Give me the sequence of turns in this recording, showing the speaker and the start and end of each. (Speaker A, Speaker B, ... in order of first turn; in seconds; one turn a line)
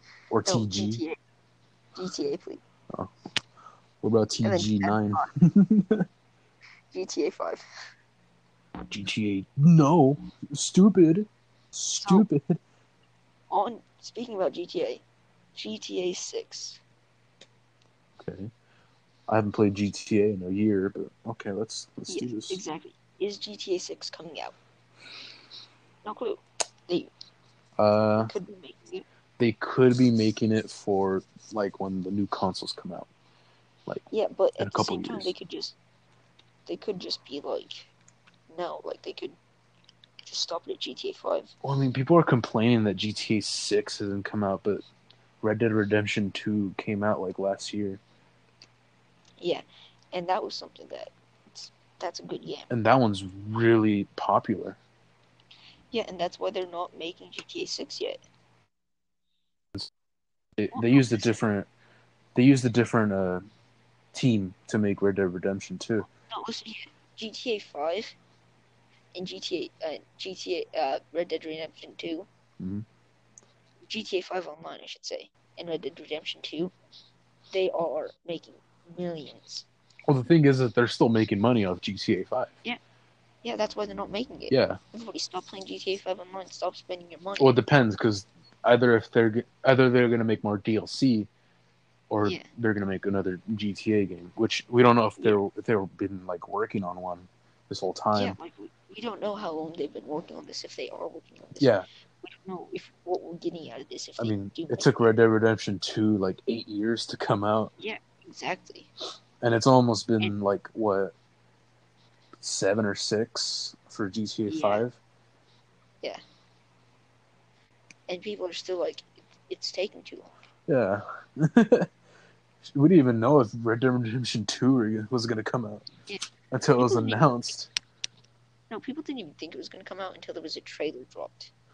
Speaker A: 0.3-1.0
Speaker B: 0.5-1.2
Speaker B: 1.9-2.6
Speaker A: 4.0-6.1
Speaker B: 4.4-5.3
Speaker B: 6.9-7.7
Speaker A: 8.9-12.6
Speaker B: 12.0-12.3
Speaker B: 13.5-15.0
Speaker B: 15.6-16.8
Speaker A: 18.2-18.5
Speaker A: 19.3-22.6
Speaker B: 22.1-24.6
Speaker B: 26.0-27.1
Speaker A: 27.8-28.3
Speaker B: 28.2-29.1
Speaker A: 29.4-33.1
Speaker B: 34.1-35.8
Speaker A: 34.6-35.3
Speaker B: 36.7-37.9
Speaker B: 38.5-39.4
Speaker B: 40.2-41.5
Speaker A: 41.6-44.8
Speaker A: 45.4-48.0
Speaker B: 49.4-52.7
Speaker A: 52.7-54.8
Speaker B: 55.9-58.2
Speaker A: 60.6-61.7
Speaker B: 60.7-61.4
Speaker A: 62.4-63.5
Speaker A: 64.1-66.1
Speaker B: 66.3-68.2
Speaker B: 69.1-72.3
Speaker A: 72.6-72.8
Speaker B: 73.9-76.7
Speaker B: 77.5-79.7
Speaker A: 80.1-82.5
Speaker B: 83.4-87.6
Speaker A: 84.5-84.8
Speaker A: 87.4-91.3
Speaker A: 92.1-98.4
Speaker B: 98.1-101.7
Speaker A: 101.6-101.9
Speaker B: 102.2-105.1
Speaker A: 104.2-107.7
Speaker B: 107.8-108.9
Speaker A: 109.4-111.1
Speaker A: 112.4-115.0
Speaker B: 114.5-114.8
Speaker B: 118.1-120.3
Speaker A: 120.7-121.9
Speaker A: 122.7-125.9
Speaker A: 126.5-127.7
Speaker B: 126.8-127.2
Speaker B: 128.7-131.5